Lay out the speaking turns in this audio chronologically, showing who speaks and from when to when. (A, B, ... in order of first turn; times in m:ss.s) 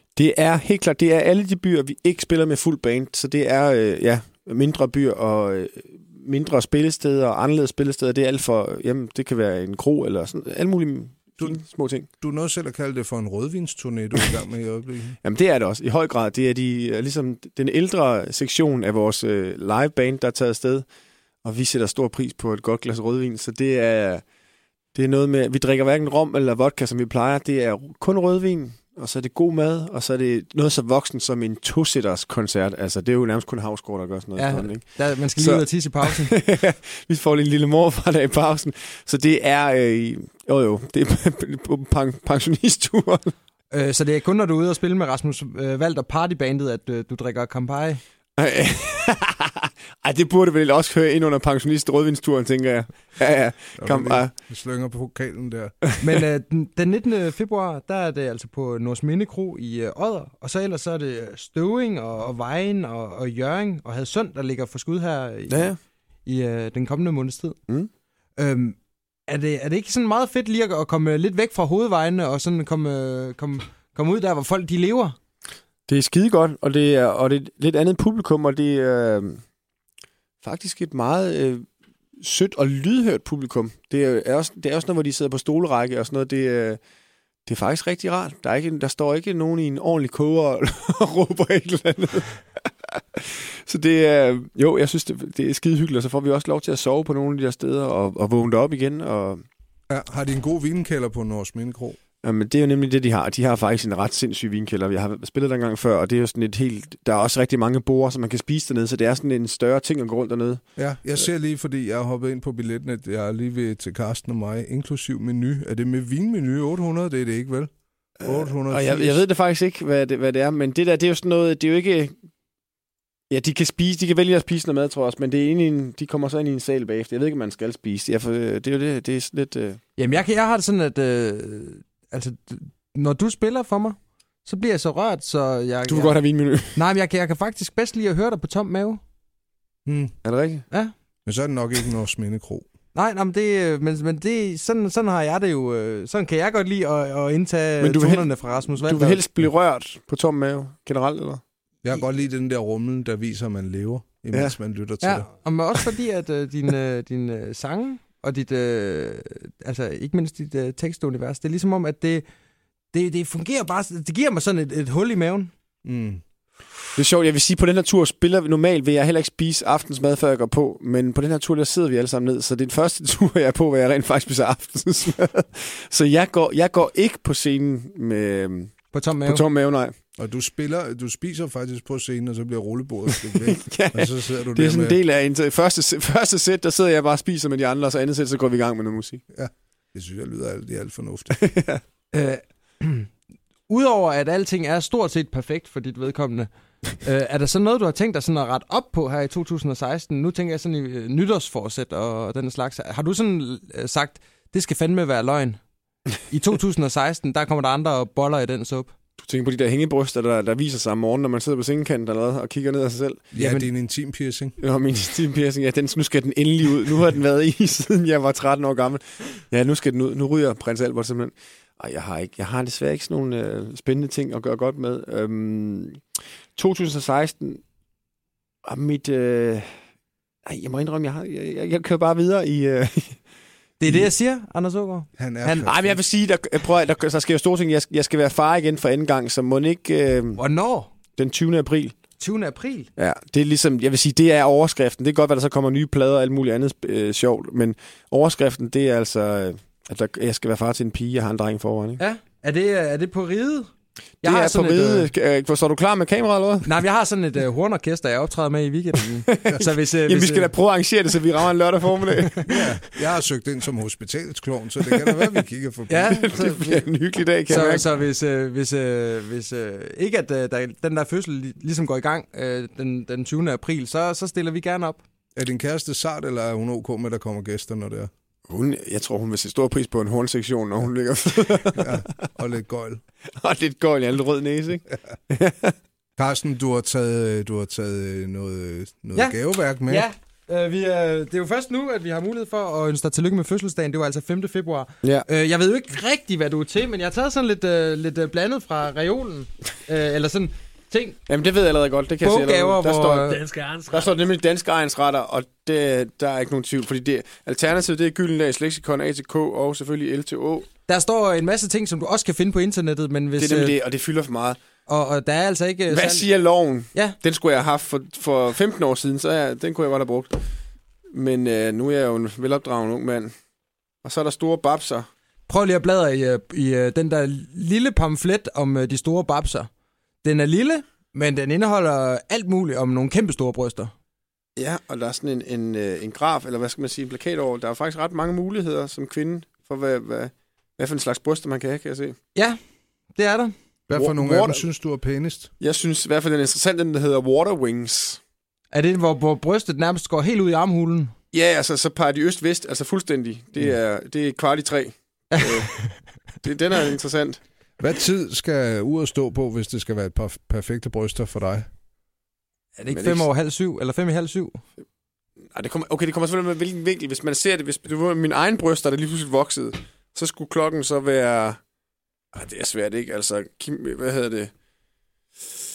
0:00.2-0:12.1 A
0:12.2-0:15.2 B
0:15.2-0:20.8 A
0:21.4-0:24.2 A
0:24.9-0:43.3 A
0:34.4-0:36.3 C
0:43.7-0:48.0 C
0:48.4-0:54.3 A
0:53.8-0:55.8 B
0:56.0-1:05.7 C
1:05.5-1:05.8 A
1:06.2-1:07.6 C
1:08.4-1:15.2 C
1:15.9-1:19.4 A
1:20.4-1:21.6 A
1:22.2-1:26.8 A
1:27.4-1:39.4 A
1:39.9-1:42.0 B
1:42.2-1:50.6 A
1:50.8-1:57.7 B
1:58.2-2:02.1 A
1:58.2-1:59.2 B
2:03.3-2:09.8 A
2:10.0-2:16.2 C
2:15.9-2:16.8 A
2:16.7-2:19.0 C
2:19.8-2:20.1 B
2:20.2-2:20.6 A
2:21.2-2:22.6 B
2:22.9-2:29.2 C
2:27.8-2:31.4 A
2:31.8-2:35.2 B
2:35.0-2:42.2 C
2:42.9-2:45.5 C
2:45.8-2:46.2 B
2:46.9-2:59.9 A
2:58.9-2:59.4 C
3:00.2-3:05.0 B
3:03.1-3:09.2 A
3:09.3-3:11.4 B
3:11.4-3:11.8 A
3:12.1-3:13.1 C
3:13.7-3:16.5 C
3:17.0-3:25.6 C
3:26.3-3:28.9 C
3:29.2-3:33.2 A
3:33.3-3:34.6 B
3:33.4-3:33.7 C
3:34.6-3:46.0 A
3:46.6-3:47.6 A
3:48.6-3:49.7 A
3:50.4-3:53.2 A
3:53.8-3:55.7 C
3:55.2-3:56.0 B
3:55.6-4:00.4 A
4:00.4-4:00.9 C
4:01.2-4:02.0 A
4:02.2-4:02.9 C
4:03.0-4:12.0 A
4:12.0-4:13.7 C
4:14.2-4:16.7 A
4:14.2-4:15.1 C
4:16.6-4:20.5 C
4:19.3-4:22.7 A
4:22.4-4:26.3 B
4:25.9-4:26.8 C
4:26.0-4:27.9 A
4:27.5-4:35.0 C
4:35.4-4:38.1 B
4:38.5-4:42.1 A
4:41.8-4:43.0 B
4:43.4-4:45.7 A
4:46.2-4:50.1 B
4:49.1-5:01.2 C
5:01.3-5:10.7 A
5:02.2-5:03.5 C
5:10.9-5:13.8 C
5:13.4-5:14.6 A
5:14.9-5:16.3 C
5:15.9-5:20.4 A
5:21.1-5:23.3 A
5:24.0-5:25.1 A
5:25.5-5:29.7 C
5:30.2-5:33.9 C
5:34.6-5:42.2 A
5:43.1-5:43.5 C
5:43.9-5:45.5 B
5:43.9-5:44.6 A
5:45.6-5:48.2 A
5:48.7-5:51.1 C
5:51.3-5:55.7 A
5:55.4-5:55.9 C
5:56.4-5:57.4 A
5:57.8-6:01.6 B
6:02.8-6:04.6 C
6:02.9-6:03.3 A
6:05.5-6:11.6 A
6:12.3-6:14.5 A